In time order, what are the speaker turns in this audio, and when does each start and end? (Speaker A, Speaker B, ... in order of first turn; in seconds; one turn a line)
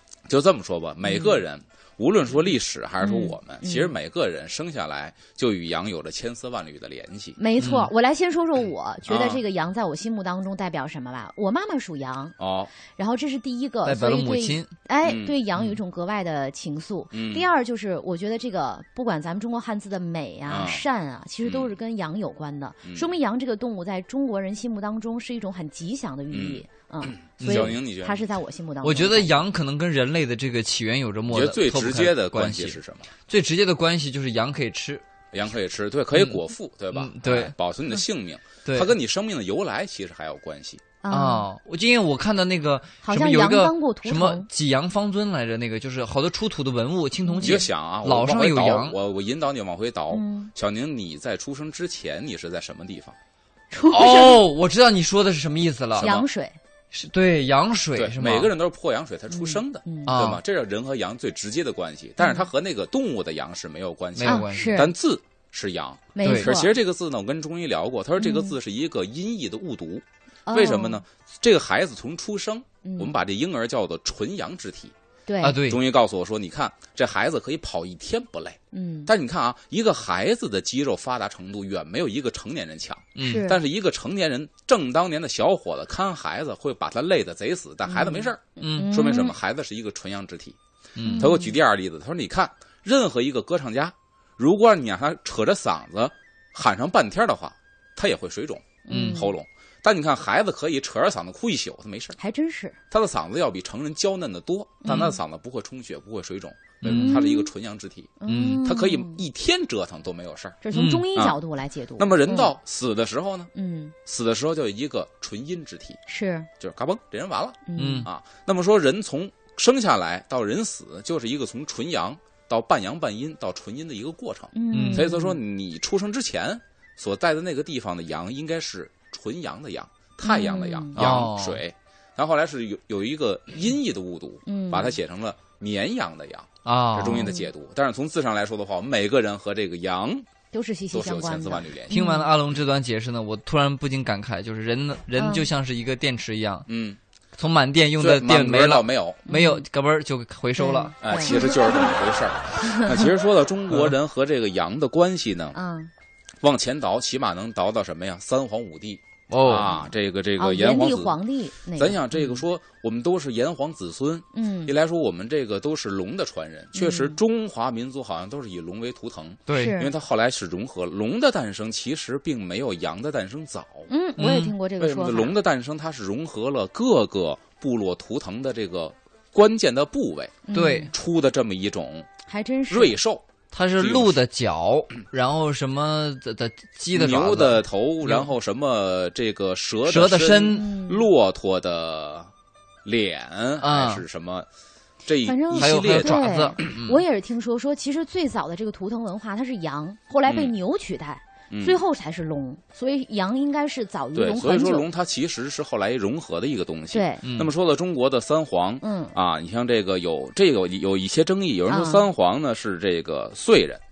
Speaker A: 0.3-7.4
Speaker B: 1.1-1.4
Speaker B: 3.0-3.9
Speaker B: 7.4-12.4
Speaker C: 7.6-7.9
Speaker A: 9.1-9.4
Speaker A: 12.4-12.7
Speaker B: 12.9-29.3
Speaker C: 13.8-14.7
Speaker A: 15.0-15.4
Speaker A: 17.1-17.5
Speaker A: 20.5-20.9
Speaker A: 21.4-21.8
Speaker A: 22.9-23.1
Speaker A: 26.3-28.2
Speaker C: 27.4-27.8
Speaker C: 28.8-35.0
Speaker A: 31.3-33.1
Speaker A: 35.3-40.8
Speaker C: 36.1-36.4
Speaker C: 36.9-37.5
Speaker C: 38.7-38.9
Speaker B: 41.0-41.5
Speaker C: 41.1-49.0
Speaker B: 43.0-44.5
Speaker B: 47.2-47.6
Speaker A: 47.4-53.2
Speaker B: 50.1-50.5
Speaker B: 53.7-54.4
Speaker C: 53.9-56.1
Speaker A: 56.0-56.3
Speaker B: 56.0-56.6
Speaker C: 56.9-58.5
Speaker A: 58.0-74.9
Speaker B: 59.3-60.2
Speaker C: 60.0-60.4
Speaker B: 62.2-62.5
Speaker C: 64.2-64.9
Speaker B: 64.2-64.9
Speaker B: 66.2-66.7
Speaker C: 66.2-66.5
Speaker B: 68.2-68.6
Speaker B: 70.5-71.0
Speaker B: 72.8-73.1
Speaker B: 75.3-75.6
Speaker C: 75.4-75.8
Speaker A: 75.6-90.6
Speaker B: 78.7-79.1
Speaker C: 83.2-83.5
Speaker B: 83.2-83.6
Speaker B: 87.9-89.3
Speaker C: 88.6-89.0
Speaker C: 91.0-91.3
Speaker B: 91.0-91.5
Speaker A: 91.2-102.2
Speaker B: 98.9-99.3
Speaker C: 98.9-99.3
Speaker B: 102.2-102.8
Speaker A: 102.9-110.6
Speaker B: 104.8-105.2
Speaker C: 106.8-107.2
Speaker B: 106.9-107.5
Speaker B: 108.2-109.2
Speaker C: 108.3-108.6
Speaker B: 110.6-112.5
Speaker C: 110.7-111.1
Speaker A: 111.1-111.4
Speaker A: 112.0-113.5
Speaker B: 113.5-114.0
Speaker A: 114.1-116.0
Speaker B: 116.1-116.5
Speaker A: 116.6-140.3
Speaker B: 117.7-118.1
Speaker C: 117.8-118.1
Speaker B: 124.5-125.4
Speaker C: 124.7-125.1
Speaker B: 130.2-131.1
Speaker C: 130.9-131.6
Speaker B: 134.5-135.0
Speaker C: 136.7-137.3
Speaker B: 140.5-142.3
Speaker A: 140.9-141.9
Speaker C: 141.9-146.7
Speaker B: 145.2-145.5
Speaker A: 146.7-147.0
Speaker C: 147.4-150.9
Speaker A: 148.0-149.3
Speaker B: 149.3-149.7
Speaker B: 150.6-151.9
Speaker A: 151.0-155.6
Speaker B: 152.6-153.1
Speaker B: 155.5-155.9
Speaker A: 156.4-161.2
Speaker C: 159.3-159.7
Speaker B: 160.4-162.1
Speaker A: 161.8-173.9
Speaker B: 164.3-164.8
Speaker B: 166.8-167.2
Speaker C: 169.5-169.7
Speaker B: 169.5-169.9
Speaker B: 173.9-175.3
Speaker C: 174.2-174.5
Speaker A: 174.8-182.1
Speaker B: 180.5-180.9
Speaker C: 180.5-180.9
Speaker B: 182.3-183.0
Speaker A: 182.7-183.3
Speaker C: 183.5-188.3
Speaker A: 183.8-184.2
Speaker A: 186.9-192.3
Speaker C: 189.8-190.7
Speaker B: 190.5-191.1
Speaker A: 192.8-194.5
Speaker C: 193.6-194.0
Speaker A: 195.1-196.2
Speaker B: 195.3-204.9
Speaker C: 195.5-197.0
Speaker A: 200.3-200.5
Speaker A: 201.5-201.8
Speaker A: 204.1-213.8
Speaker B: 206.9-207.2
Speaker C: 207.2-207.5
Speaker B: 208.8-209.2
Speaker B: 211.7-212.1